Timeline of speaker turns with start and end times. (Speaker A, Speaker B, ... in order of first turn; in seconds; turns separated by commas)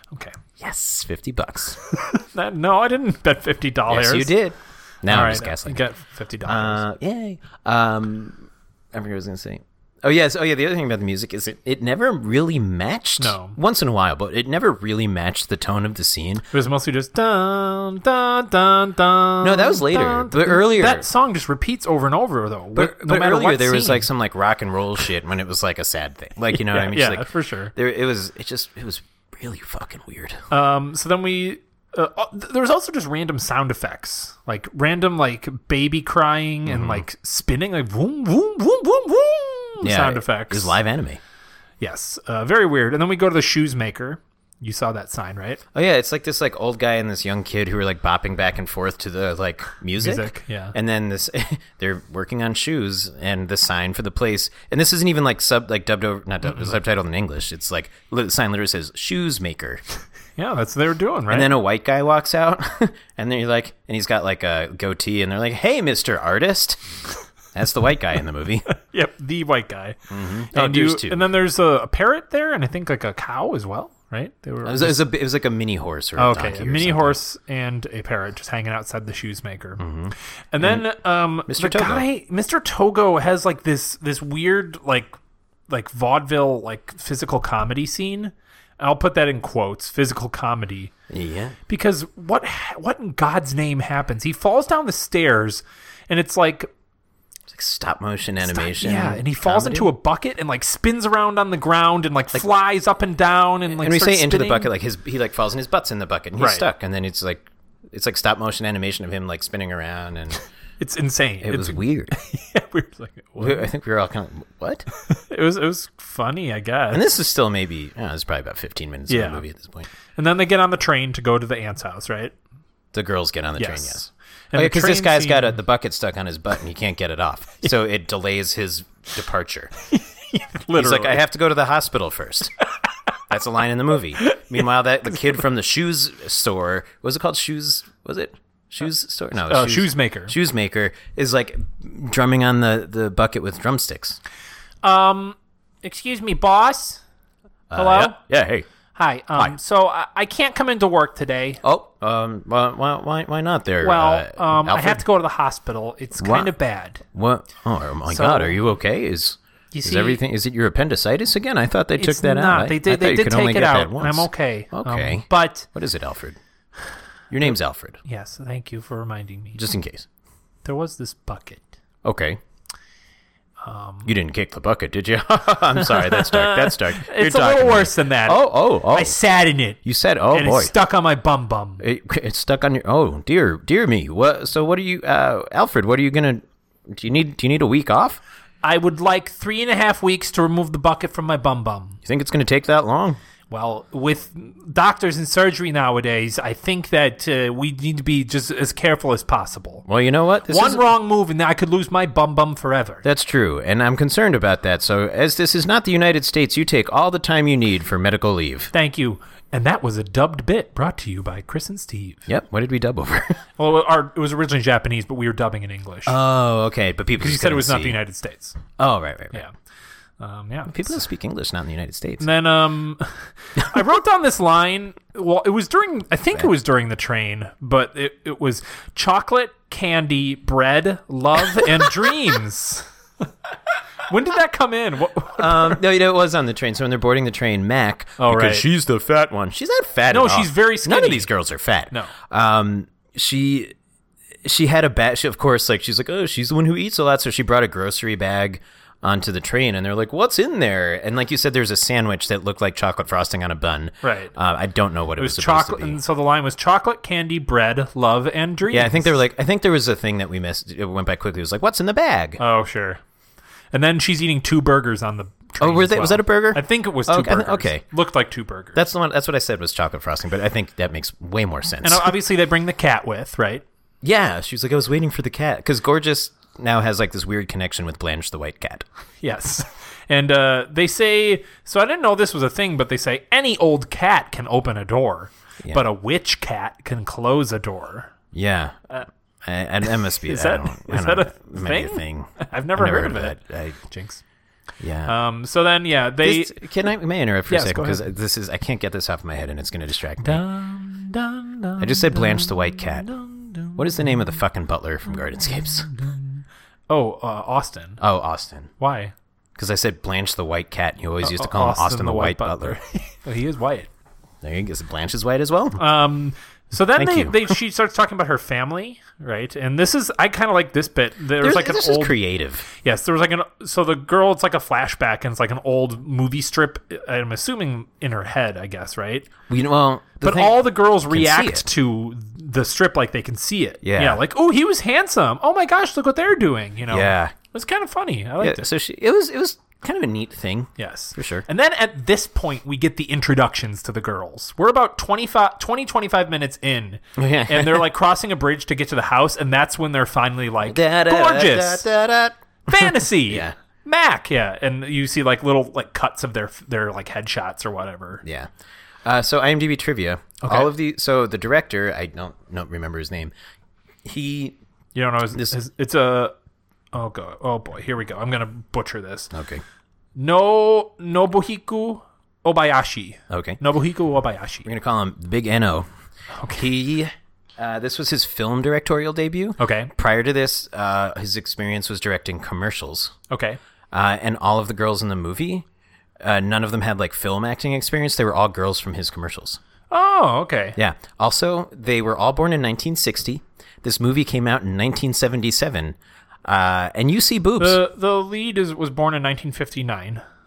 Speaker A: 0.1-0.4, Speaker B: 0.6-1.8, Speaker A: 1.9-4.3, Speaker B: 3.9-5.8, Speaker A: 5.1-6.8, Speaker B: 6.4-16.4, Speaker A: 13.2-13.6, Speaker A: 16.5-24.1, Speaker B: 19.4-21.1, Speaker B: 22.7-30.4, Speaker A: 26.5-27.7, Speaker A: 30.5-40.8, Speaker B: 36.6-37.0, Speaker B: 39.8-41.2, Speaker A: 41.8-45.6, Speaker B: 45.7-59.8, Speaker A: 50.0-50.8, Speaker A: 60.4-61.5, Speaker B: 61.3-66.9, Speaker B: 67.5-68.7, Speaker A: 68.7-75.0, Speaker B: 70.1-71.3, Speaker B: 74.6-77.2, Speaker A: 76.2-79.8, Speaker B: 79.8-80.8, Speaker A: 80.5-85.2, Speaker B: 81.5-82.0, Speaker A: 85.7-90.9, Speaker B: 91.1-91.5, Speaker A: 91.7-96.7, Speaker B: 97.5-99.9, Speaker A: 98.5-104.7, Speaker B: 103.7-110.4, Speaker A: 106.4-106.7, Speaker A: 110.8-113.7, Speaker B: 111.4-112.1, Speaker B: 113.4-114.8, Speaker A: 114.9-117.1, Speaker B: 116.9-119.9, Speaker A: 119.1-119.4, Speaker A: 120.1-122.3, Speaker B: 122.9-129.7, Speaker A: 123.6-124.0, Speaker A: 124.5-125.5, Speaker A: 129.9-131.2, Speaker B: 130.7-132.5, Speaker B: 133.3-144.2, Speaker A: 134.2-134.5, Speaker A: 139.5-140.3, Speaker A: 144.8-147.0, Speaker B: 147.7-148.7, Speaker A: 147.7-148.2, Speaker A: 148.9-151.6, Speaker B: 151.6-155.0, Speaker A: 153.8-157.0, Speaker B: 156.2-156.5, Speaker B: 157.1-166.4, Speaker A: 158.1-158.6, Speaker A: 159.7-160.2, Speaker A: 162.0-165.7, Speaker B: 167.3-168.0, Speaker A: 168.0-169.6, Speaker B: 169.5-170.1, Speaker A: 170.6-171.7, Speaker B: 172.0-172.4, Speaker A: 173.6-174.1, Speaker B: 174.0-179.2, Speaker A: 175.8-181.8, Speaker B: 179.8-180.7, Speaker B: 181.8-188.2, Speaker A: 188.6-192.0, Speaker B: 192.0-193.2, Speaker A: 193.5-199.8, Speaker B: 199.9-200.8, Speaker A: 200.5-203.0, Speaker B: 203.0-208.7, Speaker A: 208.7-212.3, Speaker B: 212.3-213.4, Speaker A: 213.6-216.2, Speaker B: 216.1-218.0, Speaker A: 217.2-218.6, Speaker B: 218.8-219.4, Speaker A: 220.2-221.0, Speaker B: 220.7-222.3, Speaker A: 222.2-232.9, Speaker B: 231.6-231.9, Speaker A: 234.1-235.8, Speaker B: 235.4-243.7, Speaker A: 238.2-238.7, Speaker A: 240.1-241.3, Speaker B: 244.4-256.0, Speaker A: 254.0-254.3, Speaker A: 255.2-259.2, Speaker B: 258.7-262.4, Speaker A: 262.4-263.0, Speaker A: 263.7-268.8, Speaker B: 265.6-267.8, Speaker B: 268.7-272.1, Speaker A: 271.8-273.6, Speaker B: 274.0-278.8, Speaker A: 279.2-288.1, Speaker B: 288.3-288.8, Speaker B: 289.4-293.8, Speaker A: 290.2-294.2, Speaker B: 294.8-295.1, Speaker A: 295.1-296.6, Speaker B: 296.2-300.4, Speaker A: 297.5-298.0, Speaker A: 300.2-304.4, Speaker B: 301.8-303.1, Speaker B: 303.8-305.9, Speaker A: 305.4-308.0, Speaker B: 308.0-308.7, Speaker A: 308.8-309.1, Speaker B: 309.6-312.8, Speaker A: 311.2-313.9, Speaker B: 314.4-315.8, Speaker A: 315.8-329.3, Speaker B: 316.9-317.5, Speaker B: 321.4-322.6, Speaker B: 329.5-331.6, Speaker A: 330.2-338.6, Speaker B: 333.8-334.2, Speaker B: 336.9-337.3, Speaker B: 338.4-341.4, Speaker A: 340.8-351.9, Speaker B: 347.1-347.9, Speaker B: 350.6-353.5, Speaker A: 352.7-358.2, Speaker B: 358.2-358.5, Speaker B: 359.0-363.3, Speaker A: 360.4-360.7, Speaker B: 364.0-364.6, Speaker A: 364.9-366.3, Speaker A: 366.9-369.3, Speaker B: 369.3-369.6, Speaker A: 370.1-374.7, Speaker B: 373.3-373.6, Speaker B: 374.6-375.9, Speaker A: 376.3-376.7, Speaker B: 376.5-383.1, Speaker A: 379.6-379.9, Speaker A: 383.3-383.6, Speaker B: 383.9-385.6, Speaker B: 386.2-389.6, Speaker A: 389.9-390.8, Speaker B: 390.8-397.8, Speaker A: 397.6-400.2